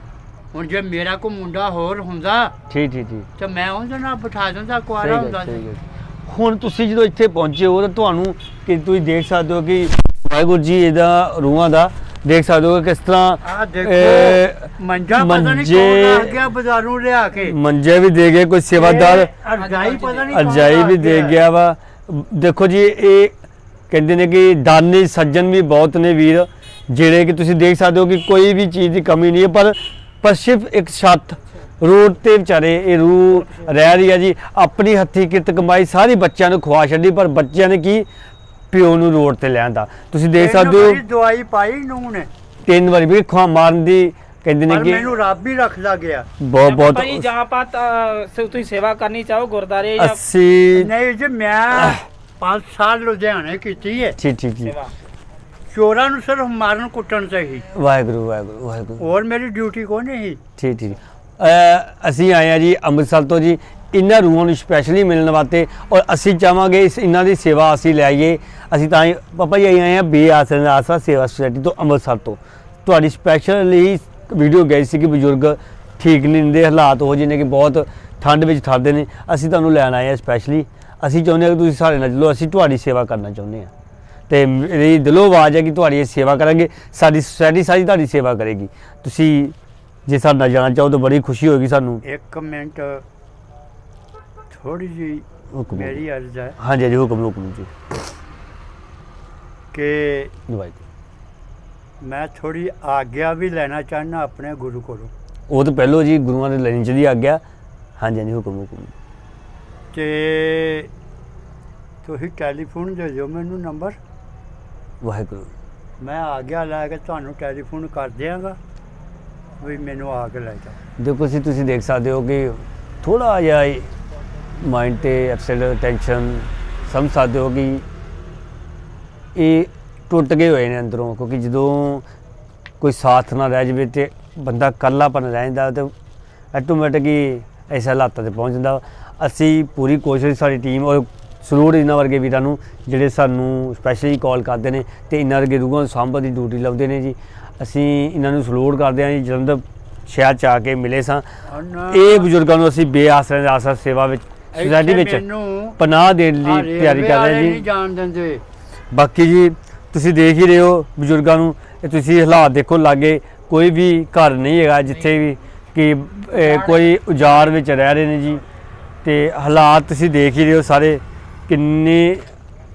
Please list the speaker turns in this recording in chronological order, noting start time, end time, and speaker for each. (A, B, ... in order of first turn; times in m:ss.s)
0:00.5-0:02.5 A
0:02.7-0:03.3 B
0:03.4-0:05.6 A
0:05.0-0:16.4 B
0:13.4-0:17.6 A
0:17.4-0:19.3 B
0:18.7-0:21.4 A
0:19.8-0:20.2 C
0:20.3-0:23.3 B
0:23.9-0:38.1 B
0:38.7-0:41.0 B
0:40.3-0:42.3 A
0:42.6-0:45.1 B
0:44.7-0:46.3 A
0:46.4-0:47.3 B
0:46.6-0:50.2 C
0:50.0-0:50.9 B
0:50.7-0:54.2 A
0:51.8-0:52.0 B
0:54.2-0:54.8 B
0:55.7-0:57.7 A
0:57.7-0:59.0 B
0:59.0-1:00.4 A
1:00.6-1:23.7 B
1:24.3-1:32.0 B
1:32.0-1:33.0 A
1:34.5-1:36.6 A
1:35.5-1:36.0 B
1:36.6-1:37.7 B
1:39.7-1:40.3 A
1:40.5-1:40.8 B
1:42.0-1:45.1 A
1:45.5-1:47.4 B
1:48.0-1:48.9 B
1:49.9-1:50.9 A
1:52.0-1:54.0 A
1:55.0-1:55.5 B
1:56.0-1:58.6 A
1:59.6-2:00.8 A
2:01.0-2:03.9 B
2:04.6-2:07.8 B
2:09.3-2:12.0 B
2:12.8-2:15.9 B
2:16.5-2:31.2 B
2:31.5-2:32.3 A
2:31.9-2:35.2 B
2:34.5-2:35.8 A
2:35.8-2:37.6 B
2:36.4-2:38.4 A
2:38.9-2:48.4 B
2:49.0-2:52.2 B